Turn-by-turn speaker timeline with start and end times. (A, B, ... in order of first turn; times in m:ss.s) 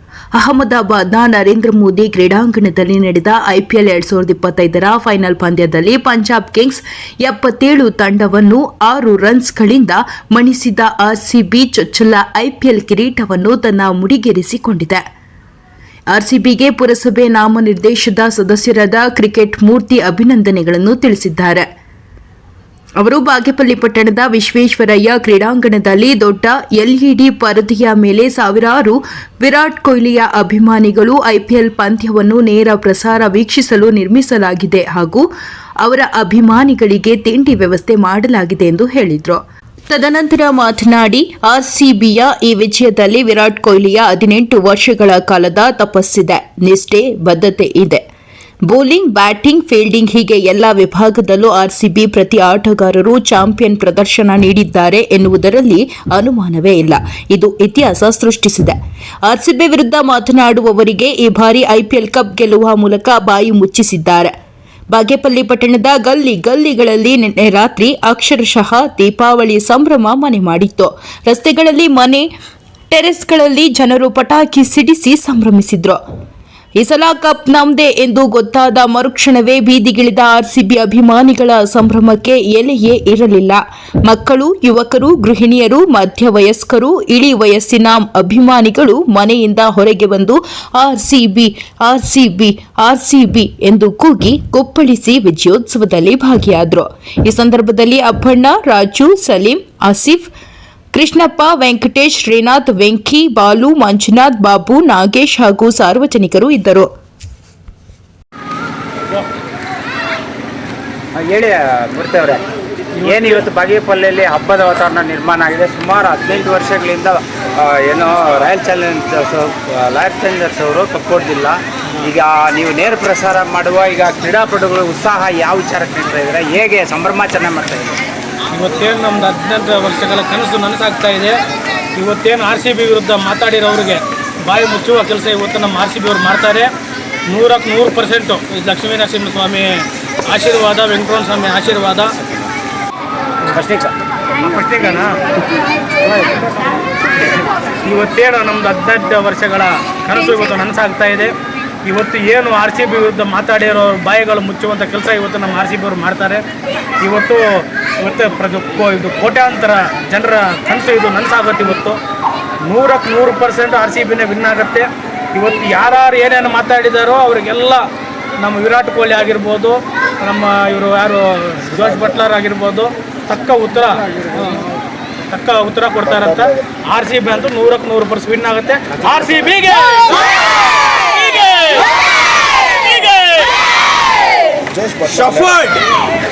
0:00.4-0:15.0 A
0:16.1-0:21.7 A
0:23.0-0:35.2 A
0:35.8-0:48.0 A
0:48.7-1:04.3 A
1:04.9-1:12.3 A
1:12.9-1:16.0 A
1:16.8-1:40.3 A
1:40.9-1:46.9 A
1:51.2-1:52.4 B
1:53.0-1:53.4 C
1:53.0-2:08.0 B
2:08.5-2:11.4 C
2:12.0-2:16.7 C
2:17.3-2:22.1 C
2:23.5-2:23.9 B
2:24.4-2:25.2 C
2:27.8-2:31.3 C
2:31.8-2:36.4 C
2:37.0-2:42.0 C
2:42.7-2:47.9 C
2:48.4-2:54.6 C
2:55.3-3:01.9 C
3:02.7-3:03.4 C
3:05.2-3:05.7 B